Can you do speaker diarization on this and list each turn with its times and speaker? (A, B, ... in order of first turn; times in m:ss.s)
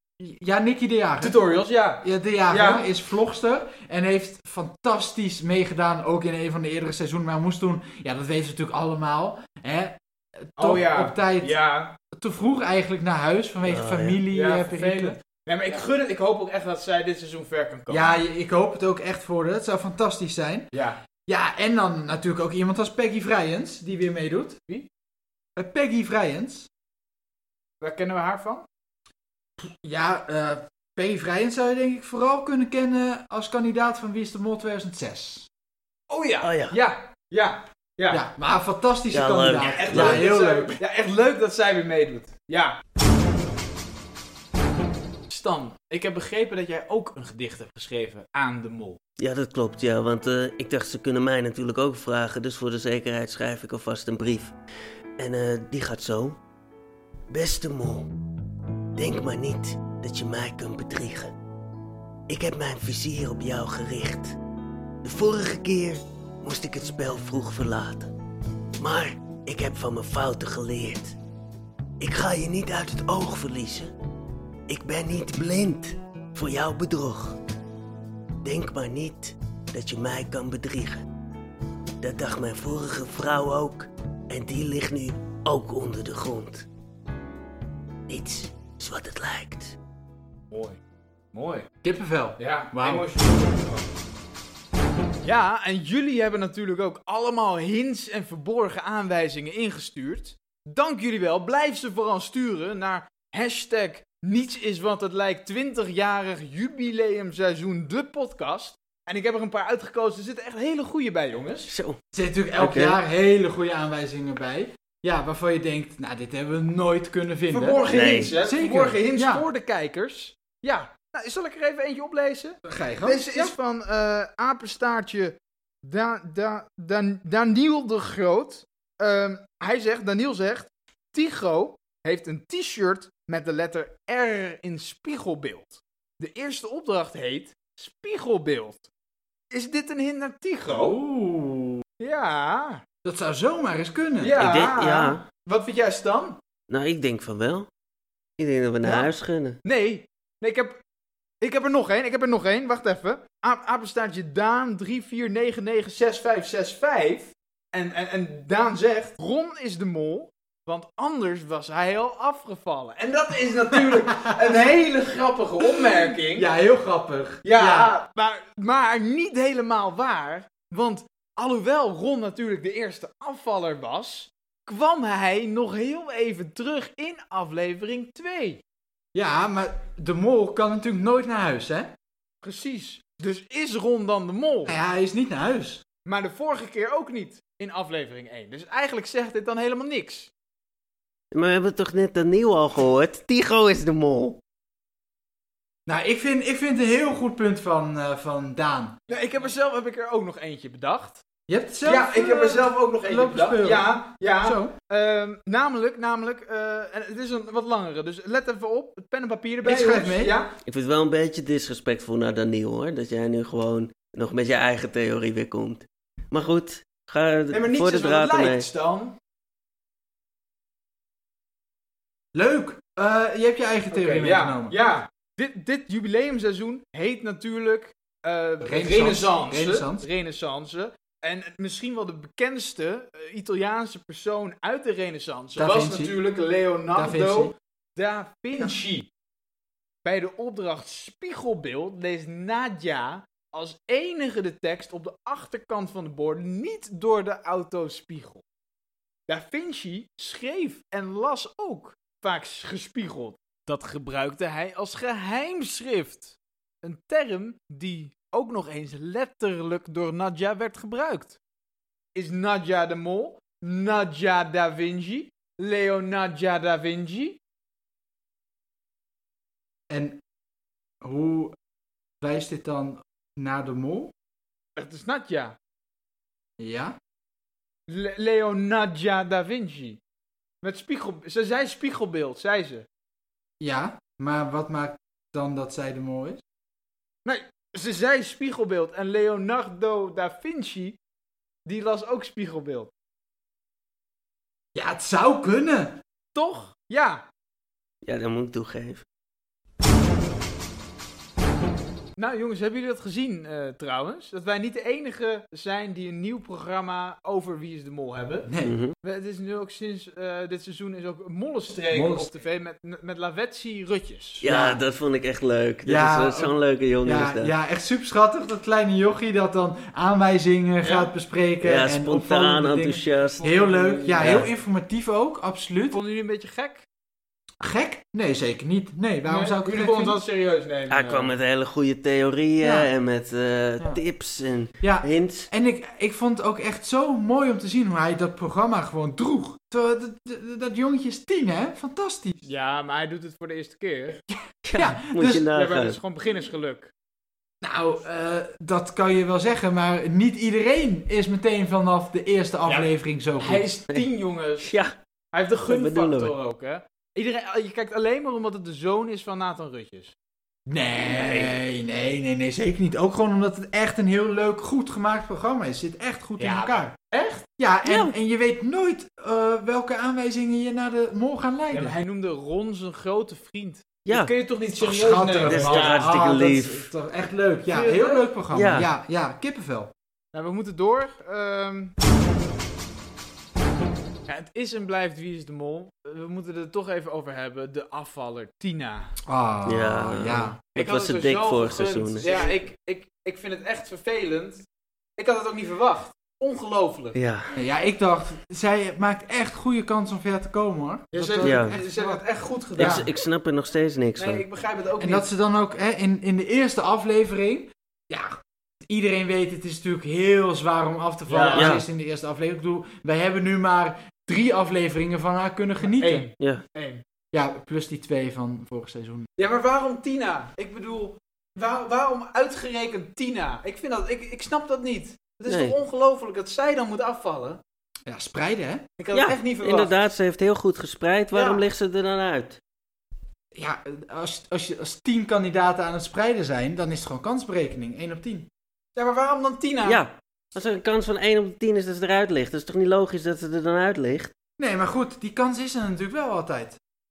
0:00.2-0:01.4 A
0:01.2-0:02.9 B
0:02.0-0:11.6 A
0:10.6-0:12.0 B
0:12.1-0:15.2 A
0:13.6-0:14.2 C
0:14.3-0:18.2 B
0:17.9-0:20.7 A
0:20.7-0:21.0 B
0:21.3-0:24.6 A
0:25.6-0:26.7 A
0:27.8-0:28.6 B
0:29.6-0:35.5 A
0:36.1-0:38.2 B
0:36.4-0:36.8 C
0:38.1-0:40.7 A
0:39.1-0:40.2 C
0:39.6-0:42.8 B
0:45.3-0:49.0 B
0:49.2-0:54.5 C
0:55.2-0:56.4 C
0:57.3-0:58.1 C
0:59.0-1:01.3 C
1:02.3-1:04.4 C
1:05.0-1:08.1 C
1:08.8-1:11.2 C
1:12.0-1:13.9 C
1:14.7-1:17.4 C
1:18.4-1:21.0 C
1:22.0-1:26.6 C
1:28.1-1:29.8 C
1:30.5-1:30.8 B
1:31.3-1:31.6 B
1:31.8-1:33.0 A
1:32.4-1:33.9 B
1:35.2-1:51.7 B
1:51.7-1:52.0 C
1:52.1-1:59.4 A
1:52.6-1:53.0 C
1:57.5-2:18.9 B
1:57.9-1:58.3 C
2:02.6-2:03.5 A
2:19.5-2:21.0 B
2:20.7-2:21.8 A
2:22.0-2:22.8 B
2:23.0-2:24.4 A
2:24.2-2:26.4 B
2:24.4-2:25.2 C
2:26.7-2:27.7 C
2:28.4-2:29.6 C
2:29.6-2:30.8 B
2:31.4-2:46.5 B
2:45.8-2:47.9 A
2:47.4-2:58.6 B
2:59.1-3:01.9 A
3:02.4-3:04.7 B
3:04.7-3:05.8 A
3:06.0-3:10.3 B
3:11.3-3:14.4 C
3:15.8-3:19.0 A
3:19.1-3:21.2 B
3:21.5-3:23.9 A
3:21.8-3:30.5 B
3:24.4-3:24.7 A
3:29.6-3:30.4 A
3:30.6-3:38.7 C
3:37.5-3:39.1 B
3:42.3-3:44.7 A
3:43.9-3:59.1 B
3:48.6-3:50.1 A
3:55.6-3:56.1 A
3:56.9-3:57.5 A
4:00.0-4:08.4 B
4:09.3-4:21.4 B
4:22.1-4:27.4 B
4:29.9-4:30.2 A
4:31.0-4:31.6 A
4:32.2-4:34.1 A
4:34.8-4:35.6 B
4:36.6-4:37.0 A
4:37.9-4:40.0 B
4:40.6-4:42.9 B
4:43.6-4:46.4 A
4:47.2-4:51.0 B
4:51.6-4:52.9 B
4:54.7-4:56.0 A
4:56.3-4:57.2 B
4:58.0-4:59.0 C
5:02.2-5:08.5 B
5:08.4-5:08.7 A
5:08.6-5:08.9 C
5:09.0-5:14.4 B
5:11.9-5:12.3 A
5:14.4-5:17.5 C
5:14.4-5:14.8 A
5:15.8-5:26.0 A
5:20.8-5:21.1 B
5:21.6-5:23.4 C
5:23.4-5:24.5 B
5:24.2-5:24.5 C
5:25.9-5:26.8 B
5:27.6-5:30.2 A
5:29.2-5:31.3 B
5:30.9-5:35.5 C
5:32.6-5:32.9 A
5:34.8-5:42.4 A
5:42.4-5:44.2 B
5:44.6-5:46.0 C
5:44.7-5:45.5 A
5:45.5-5:46.9 B
5:47.6-5:53.7 A
5:52.6-5:54.7 B
5:54.6-5:54.9 C
5:55.3-6:00.1 B
5:55.6-5:56.3 C
6:00.7-6:06.9 A
6:01.1-6:01.6 C
6:06.4-6:07.4 B
6:07.6-6:11.9 A
6:07.8-6:08.1 C
6:11.7-6:16.2 B
6:14.0-6:14.3 C
6:14.7-6:19.9 A
6:15.4-6:16.9 C
6:17.6-6:18.3 B
6:18.5-6:18.9 C
6:20.3-6:21.9 B
6:24.3-6:29.1 B
6:29.3-6:30.5 A
6:29.6-6:32.4 C
6:30.7-6:34.6 B
6:35.2-6:37.2 B
6:37.1-6:37.5 C
6:37.5-6:42.2 A
6:41.1-6:43.1 B
6:41.4-6:41.8 C
6:42.7-6:44.4 C
6:42.8-6:43.0 A
6:44.2-6:45.3 B
6:45.0-6:48.3 A
6:48.8-6:56.2 A
6:51.3-6:51.8 B
6:51.5-6:51.8 C
6:55.8-6:57.0 B
6:57.3-6:59.3 A
6:59.4-7:07.6 B
7:05.5-7:05.8 C
7:08.1-7:08.9 A
7:09.0-7:09.9 B
7:09.1-7:12.6 C
7:11.3-7:11.6 B
7:13.5-7:18.5 A
7:18.9-7:20.0 B
7:19.8-7:24.3 C
7:24.6-7:26.8 A